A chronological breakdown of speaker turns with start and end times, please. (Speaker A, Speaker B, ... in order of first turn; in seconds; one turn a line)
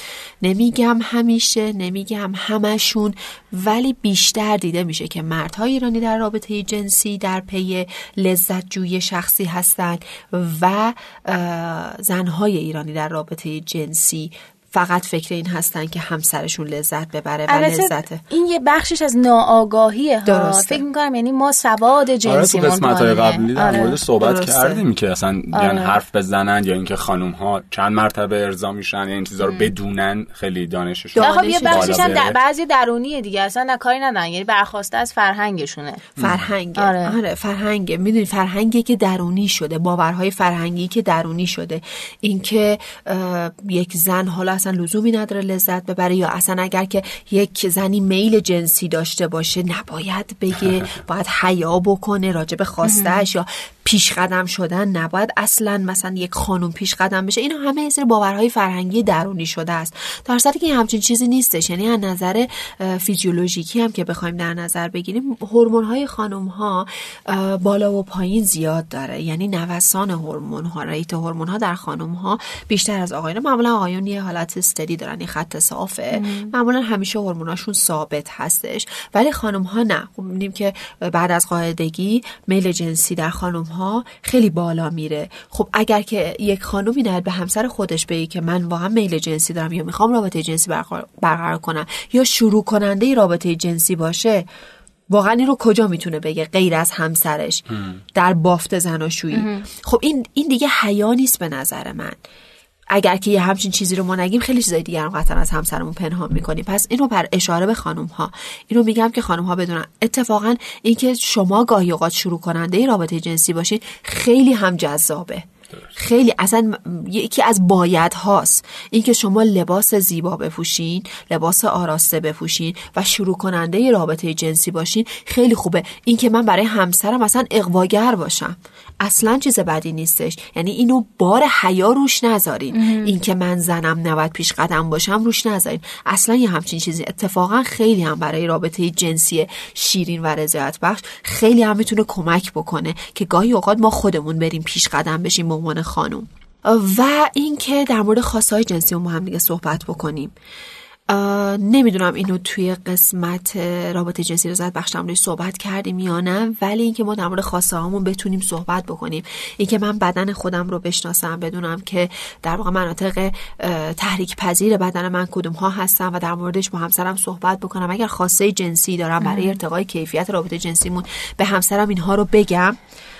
Speaker A: 0.4-18.2
Speaker B: 17.5-24.0
Speaker A: 20.3-20.8
Speaker C: 22.2-32.4
Speaker A: 24.2-24.8
Speaker B: 25.5-26.0
Speaker B: 29.4-29.7
Speaker A: 31.1-32.2
Speaker B: 31.2-36.1
Speaker A: 36.2-94.5
Speaker C: 36.2-36.5
Speaker B: 36.8-37.2
Speaker B: 52.8-53.2
Speaker B: 76.1-76.5
Speaker A: 95.1-97.6
Speaker A: 98.1-102.2
Speaker B: 99.3-99.7
Speaker A: 102.9-150.3
Speaker B: 132.7-133.2
Speaker A: 151.1-172.8
Speaker B: 169.2-169.6